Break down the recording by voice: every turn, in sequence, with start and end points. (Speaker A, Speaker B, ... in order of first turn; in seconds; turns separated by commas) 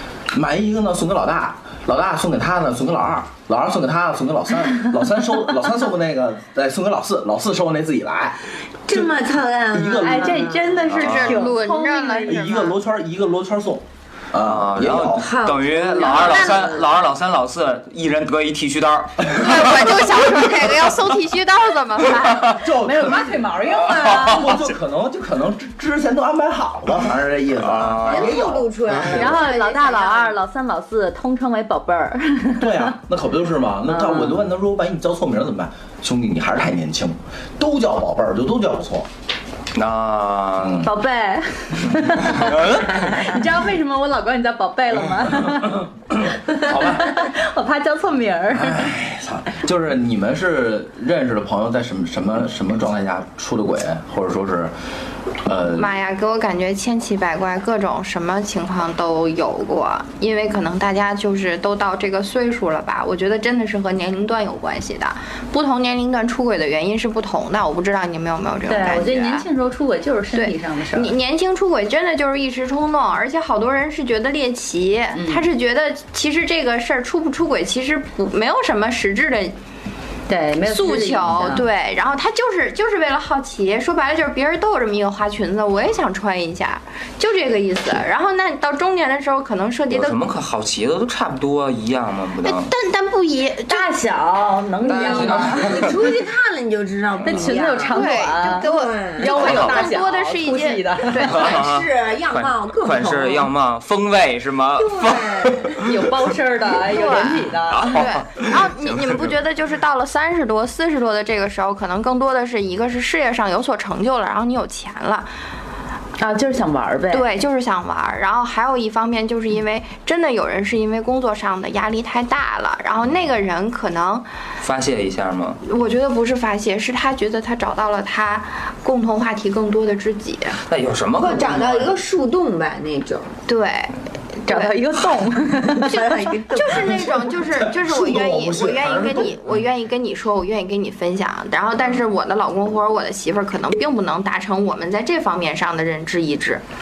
Speaker A: 0.3-9.1, Speaker B: 8.9-10.8, Speaker A: 9.7-10.5, Speaker C: 10.0-12.4, Speaker D: 10.9-12.7, Speaker E: 10.9-11.4, Speaker A: 12.3-15.4, Speaker E: 14.4-19.9, Speaker B: 15.1-16.9, Speaker D: 19.2-22.6, Speaker A: 22.5-29.4, Speaker C: 22.6-24.5, Speaker E: 27.7-28.4, Speaker B: 28.0-30.1, Speaker C: 29.1-32.9, Speaker A: 32.6-39.1, Speaker C: 33.9-34.5, Speaker E: 39.7-40.8, Speaker A: 40.6-40.9, Speaker C: 40.8-45.9, Speaker E: 42.2-43.4, Speaker A: 46.5-47.2, Speaker C: 46.5-48.9, Speaker A: 48.5-54.7, Speaker A: 55.4-55.9, Speaker D: 55.7-69.5, Speaker C: 68.7-71.1, Speaker D: 70.3-79.5, Speaker C: 75.1-75.4, Speaker C: 80.3-81.7, Speaker D: 80.6-90.2, Speaker E: 89.9-92.7, Speaker D: 92.4-93.9, Speaker C: 93.7-95.8, Speaker E: 94.8-96.1, Speaker B: 94.9-99.8, Speaker C: 97.2-101.5, Speaker D: 97.4-101.6, Speaker E: 101.2-105.9, Speaker B: 101.2-103.5, Speaker B: 104.8-106.0, Speaker C: 105.8-108.0, Speaker D: 106.8-115.3, Speaker E: 107.7-109.1, Speaker C: 116.2-117.3, Speaker D: 117.1-124.2, Speaker E: 124.6-125.6, Speaker D: 125.6-130.6, Speaker E: 130.7-132.0, Speaker B: 131.2-133.3, Speaker D: 133.5-133.9, Speaker D: 134.5-134.8, Speaker C: 134.5-136.4, Speaker B: 135.7-137.2, Speaker D: 135.9-146.6, Speaker A: 137.5-139.3